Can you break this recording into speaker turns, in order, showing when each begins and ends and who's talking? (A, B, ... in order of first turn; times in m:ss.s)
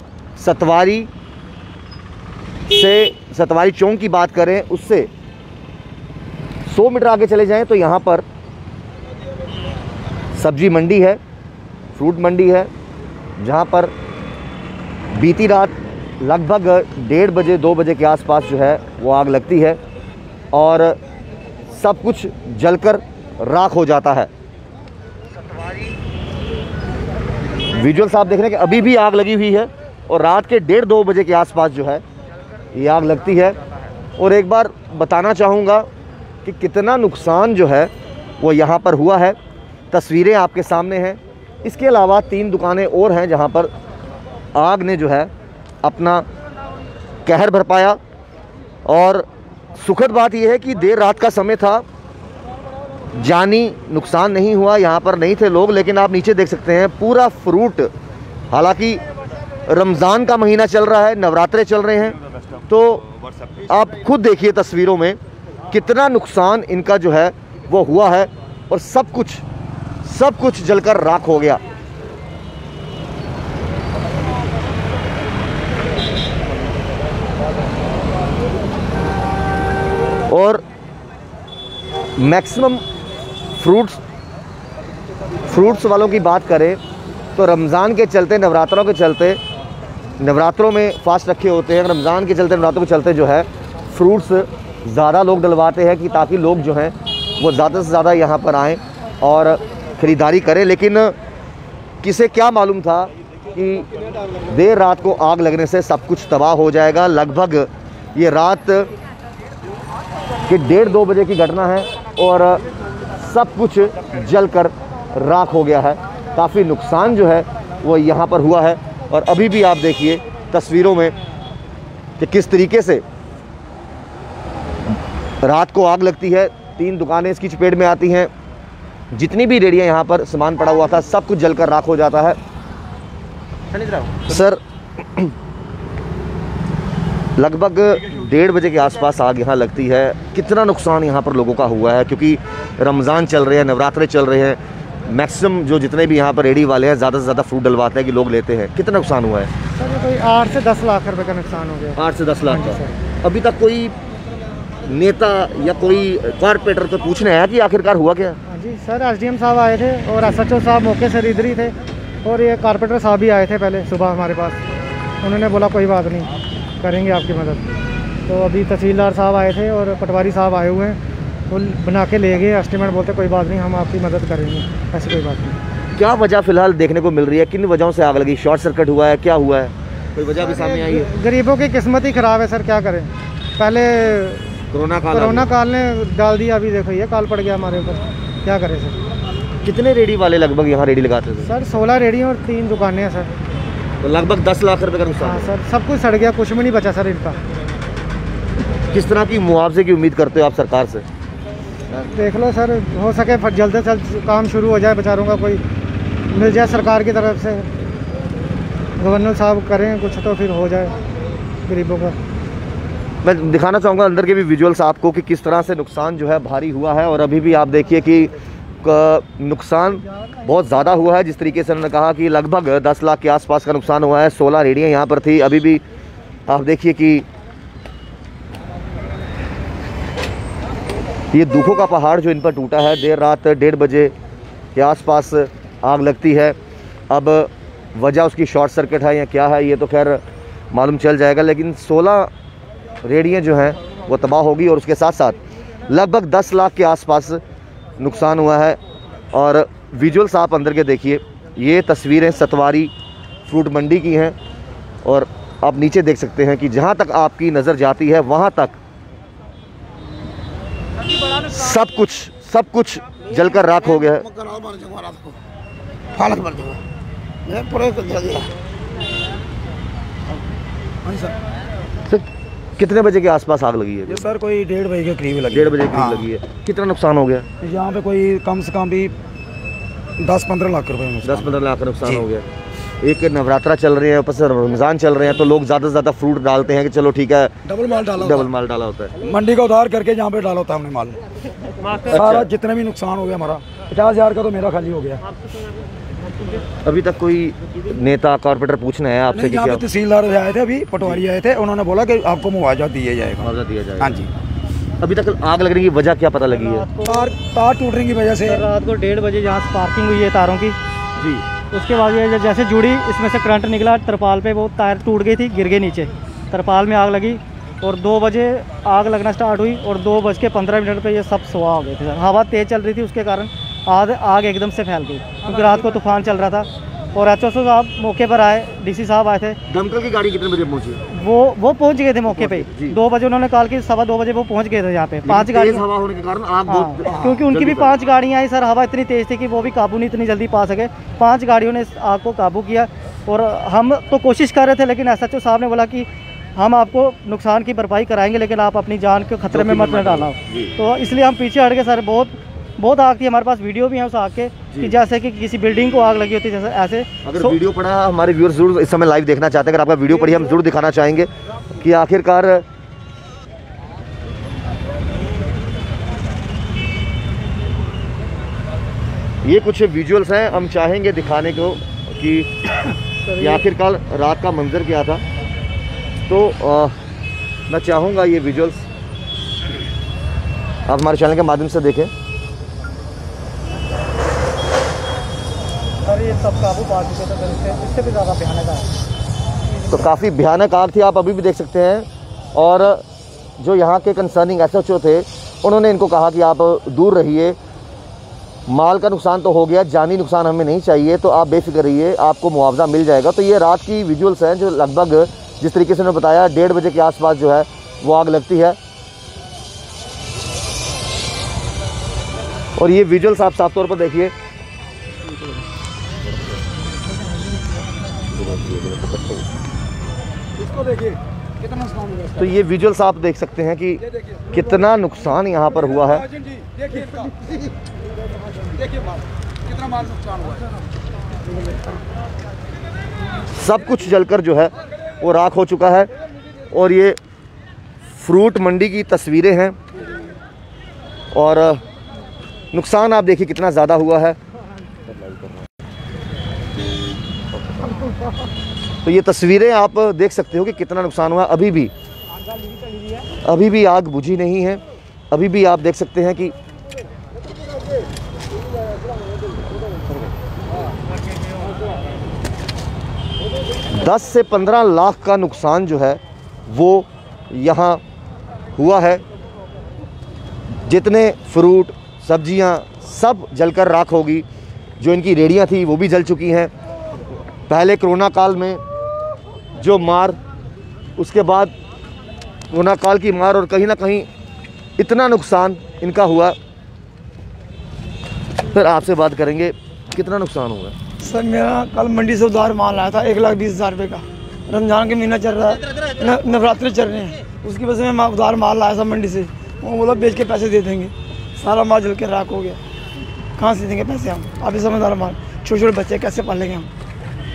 0:00.4-0:01.1 A
0:02.7-0:05.1 A
0:06.7-0:08.2 A
0:10.4-0:11.2 A
0:11.9-0:12.7 A
0:13.4-0:13.9 A
0:15.1-0:19.8 A
0:20.5-0:21.0 A
0:21.7-0:24.3 A
0:27.7-0:32.0 A
0:32.7-0:33.6 A
0:34.2-0:35.9 A
0:36.4-0:39.4 A
0:39.9-0:43.7 A
0:44.5-0:45.3 A
0:45.8-0:46.2 A
0:47.2-0:48.0 A
0:48.8-0:49.2 A
0:49.8-0:51.8 A
0:53.1-0:57.9 A
0:58.5-0:59.0 A
0:59.7-1:02.1 A
1:02.7-1:03.0 A
1:03.6-1:05.2 A
1:05.7-1:09.4 A
1:10.0-1:11.6 A
1:20.3-1:20.6 A
1:22.2-1:22.8 A
1:23.6-1:24.0 A
1:25.5-1:26.8 A
1:27.4-1:29.4 A
1:30.2-1:41.1 A
1:42.0-1:43.9 A
1:44.5-1:48.9 A
1:50.5-1:52.6 A
1:53.2-2:01.1 A
2:02.2-2:03.0 A
2:05.4-2:08.3 A
2:09.1-2:12.4 A
2:13.9-2:15.3 A
2:17.4-2:29.5 A
2:29.8-2:32.9 B
2:32.0-2:33.9 A
2:34.8-2:38.4 A
2:38.5-2:44.6 B
2:45.2-2:46.3 B
2:46.8-2:47.8 B
2:48.3-2:51.0 B
2:51.5-2:55.6 B
2:55.9-3:01.1 A
3:00.4-3:04.5 B
3:04.7-3:05.5 A
3:05.1-3:09.0 B
3:09.6-3:11.5 A
3:11.4-3:13.3 B
3:14.0-3:15.5 A
3:15.2-3:17.4 B
3:18.9-3:21.0 A
3:21.9-3:25.6 B
3:26.3-3:27.7 B
3:29.0-3:31.0 B
3:31.6-3:32.2 B
3:33.2-3:45.8 A
3:46.5-3:47.2 A
3:51.3-3:54.1 A
3:54.7-3:56.6 A
3:57.1-4:02.3 A
4:03.0-4:07.4 A
4:08.0-4:08.8 A
4:09.3-4:12.9 A
4:13.5-4:14.4 A
4:15.0-4:18.8 A
4:21.5-4:24.3 A
4:26.2-4:26.7 C
4:27.5-4:28.4 C
4:31.0-4:31.3 D
4:32.8-4:34.2 A
4:34.0-4:36.3 D
4:35.5-4:37.4 A
4:37.6-4:39.1 D
4:40.2-4:41.5 D
4:41.2-4:42.4 A
4:43.0-4:47.5 A
4:47.6-4:48.5 D
4:48.2-4:49.1 A
4:49.2-4:51.2 D
4:52.1-4:52.5 A
4:52.1-4:55.2 D
4:56.8-4:59.8 A
4:59.3-5:04.3 D
5:03.4-5:04.2 A
5:05.0-5:06.8 A
5:06.5-5:07.4 E
5:07.0-5:08.6 D
5:08.5-5:10.8 E
5:11.2-5:11.4 A
5:11.7-5:29.6 E
5:29.7-5:31.0 A
5:31.1-5:35.8 E
5:32.3-5:33.0 A
5:35.2-5:38.0 A
5:36.7-5:57.6 E
5:49.5-5:50.7 A
5:54.7-5:55.0 A
5:57.2-6:02.6 A
6:09.4-6:12.5 A
6:13.3-6:13.6 E
6:13.4-6:15.2 A
6:16.3-6:16.9 A
6:17.7-6:18.8 A
6:20.9-6:22.1 A
6:26.0-6:28.9 E
6:29.9-6:33.0 A
6:33.6-6:37.6 A
6:38.7-6:48.8 A
6:52.8-6:54.3 A
6:58.4-6:59.4 A
7:02.3-7:06.2 A
7:13.6-7:16.1 A
7:16.7-7:17.2 A
7:18.2-7:19.8 A
7:21.3-7:21.8 A
7:22.7-7:24.4 A
7:29.0-7:31.9 A
7:33.4-7:36.5 A
7:43.9-7:48.0 A
7:48.8-7:49.2 A
7:50.9-7:54.4 A
7:55.0-7:56.7 A
7:57.7-7:58.8 A
7:59.8-8:00.4 A
8:01.2-8:01.7 A
8:02.7-8:04.3 A
8:05.0-8:06.6 A
8:08.7-8:10.9 A
8:11.2-8:22.8 C
8:23.6-8:26.9 C